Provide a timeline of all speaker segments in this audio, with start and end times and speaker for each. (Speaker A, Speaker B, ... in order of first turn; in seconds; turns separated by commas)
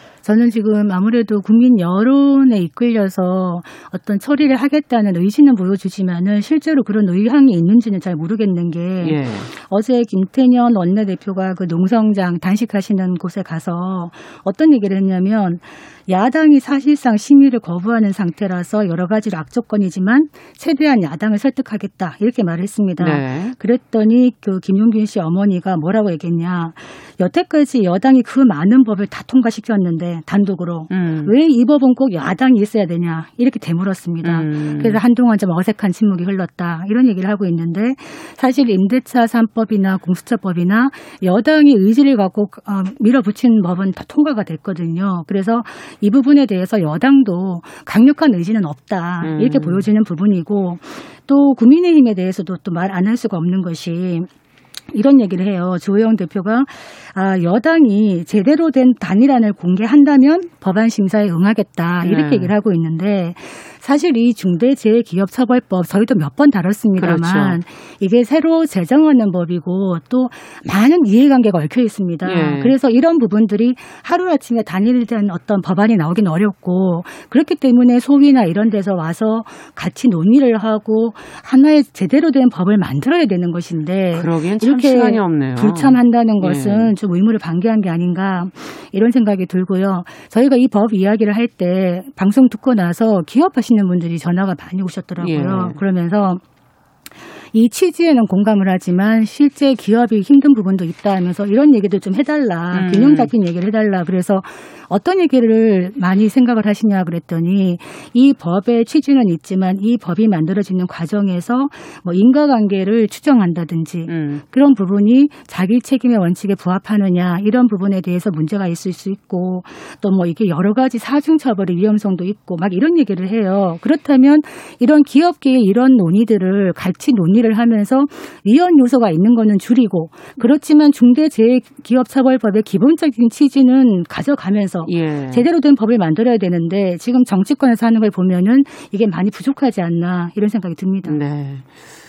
Speaker A: 0.2-54.3, Speaker B: 9.0-9.5, Speaker B: 23.0-23.6, Speaker B: 30.9-31.3, Speaker B: 34.2-35.0, Speaker B: 49.2-49.8, Speaker A: 54.9-96.4, Speaker B: 62.0-62.5, Speaker B: 67.0-67.6, Speaker B: 72.2-72.8, Speaker B: 84.1-86.9, Speaker B: 95.2-95.8, Speaker A: 97.5-141.2, Speaker B: 102.7-103.3, Speaker B: 114.1-114.4, Speaker B: 134.8-135.5, Speaker B: 141.0-141.7